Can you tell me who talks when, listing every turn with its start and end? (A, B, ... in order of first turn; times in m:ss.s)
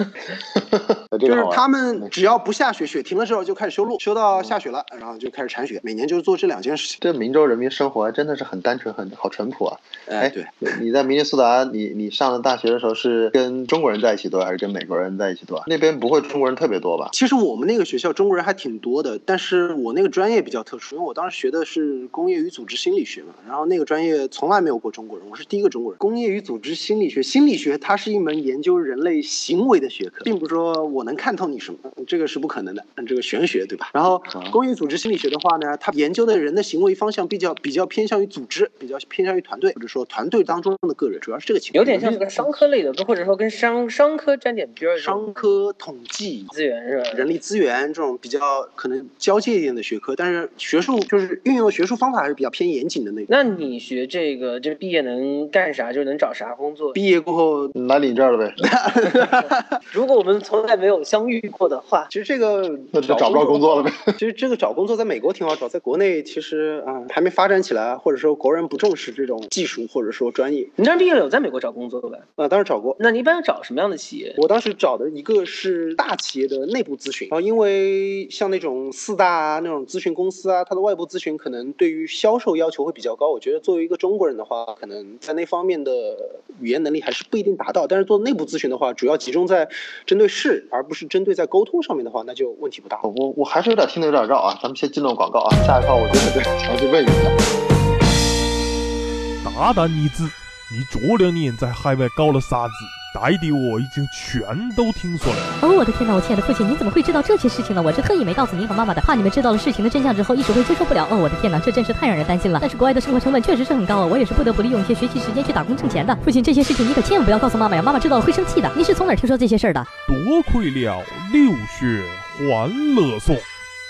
0:00.5-0:02.1 A
0:01.2-0:07.0 B
0:07.0-0:17.1 A
0:10.1-0:10.5 B
0:17.1-0:42.2 B
0:34.3-0:34.6 A
0:41.7-0:45.5 C
0:42.0-0:42.5 A
0:45.0-0:46.5 B
0:46.5-0:47.3 C
0:47.1-0:53.3 B
0:53.3-0:57.0 C
0:56.9-0:57.7 B
0:57.8-0:58.6 A
0:58.6-0:59.6 B
0:59.9-1:02.1 C
1:02.1-1:10.7 B
1:02.9-1:04.1 A
1:10.8-1:12.2 C
1:12.4-1:13.0 B
1:13.0-1:14.4 C
1:14.4-1:33.0 B
1:33.0-1:37.3 A
1:39.4-1:45.5 D
1:45.6-1:59.9 E
2:00.0-2:03.5 D